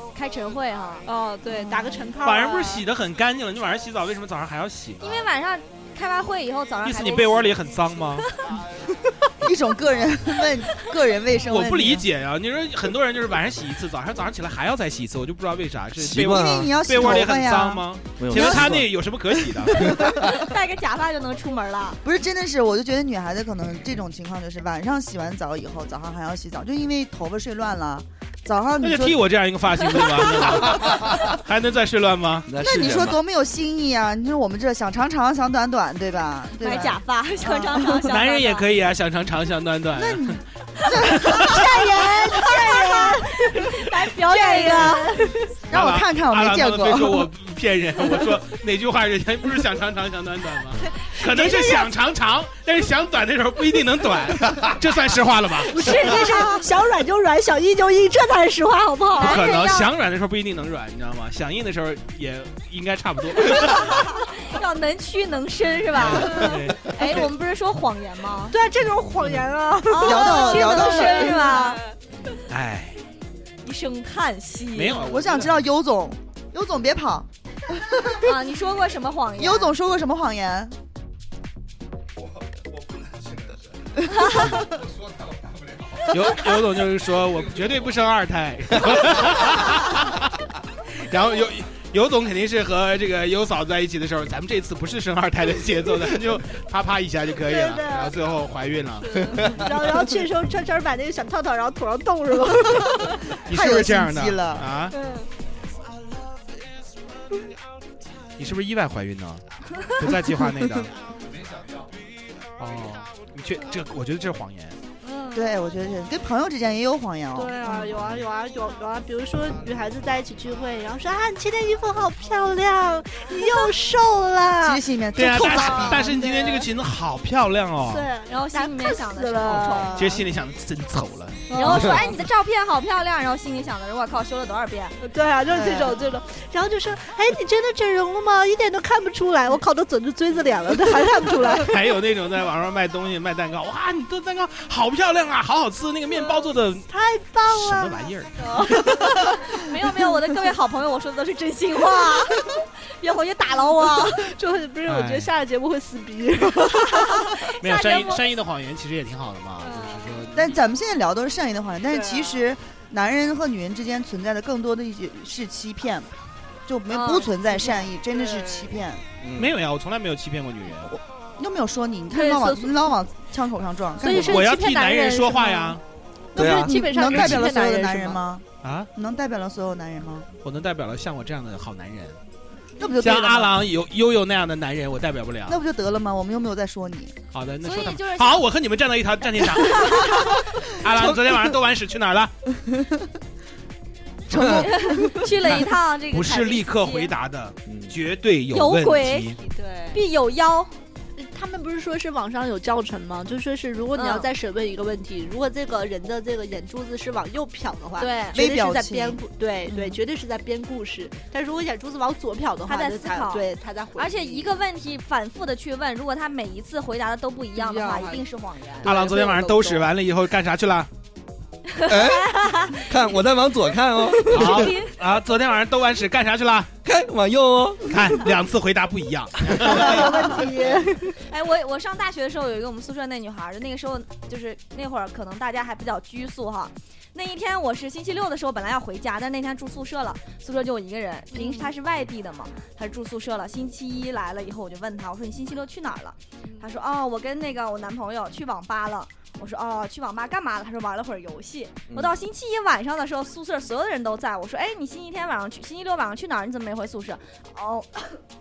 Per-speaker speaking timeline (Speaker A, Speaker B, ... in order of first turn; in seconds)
Speaker A: 0.1-1.1, 5.0-7.5, 20.2-22.0, 36.6-38.7, 41.1-45.5, 55.9-56.6, 59.2-59.9, 63.6-68.6, 69.9-71.8, 73.6-75.1, 78.2-79.8, 128.3-130.2, 131.5-135.0, 149.2-152.5, 153.0-154.3, 157.0-158.2, 166.9-167.3, 187.6-188.5, 189.6-190.4, 194.4-197.1, 198.5-199.3, 199.9-200.8, 203.9-204.3, 208.0-208.4, 212.7-218.9, 221.7-222.8, 224.3-224.9, 231.3-258.2
Speaker B: 1.1-2.8, 42.4-43.5, 44.3-45.4, 51.2-51.9, 55.7-59.4, 68.5-72.0, 97.5-98.1, 99.0-103.2, 104.9-105.3, 115.0-115.6, 117.3-126.7, 127.9-130.2, 131.5-132.1, 135.0-141.7, 146.9-149.3, 154.1-157.3, 159.6-160.2, 161.9-162.5, 167.5-168.7, 172.1-172.9, 174.0-175.8, 176.3-178.2, 199.4-200.0, 201.2-214.5, 217.6-218.3, 218.8-219.9, 229.7-231.2, 241.3-241.7
Speaker C: 2.2-5.2, 6.8-8.3, 11.4-20.0, 28.8-32.5, 38.1-40.4, 41.0-41.7, 45.7-56.0, 59.2-64.2, 65.9-67.3, 72.5-73.0, 74.7-75.7, 86.1-90.3, 91.1-99.6, 103.5-105.0, 108.4-110.9, 112.6-114.8, 125.2-128.1, 130.0-132.1, 141.6-146.9, 147.5-148.4, 154.9-155.3, 157.6-160.6, 169.3-170.9, 174.2-175.8, 178.6-178.9, 180.4-182.2, 183.0-185.6, 187.3-192.3, 195.6-199.4, 218.8-220.9, 224.3-226.7, 227.9-230.3
Speaker D: 9.4-12.1, 16.3-18.6, 19.7-20.5, 22.0-29.2, 29.9-30.5, 32.6-38.1, 39.9-42.5, 45.7-47.3, 70.0-71.5, 75.0-78.3, 79.4-80.7, 103.5-104.7, 115.3-118.0, 124.6-126.2, 135.5-136.1, 160.3-166.1, 166.7-169.0, 170.9-174.4, 176.3-180.3, 182.8-183.7, 185.5-187.2, 190.9-191.5, 194.3-195.4, 208.3-210.0
Speaker E: 16.0-16.8, 18.2-18.9, 30.8-31.2, 32.5-33.2, 169.2-169.6, 176.4-177.5, 197.7-197.9, 221.9-224.7, 226.8-228.0, 251.9-252.2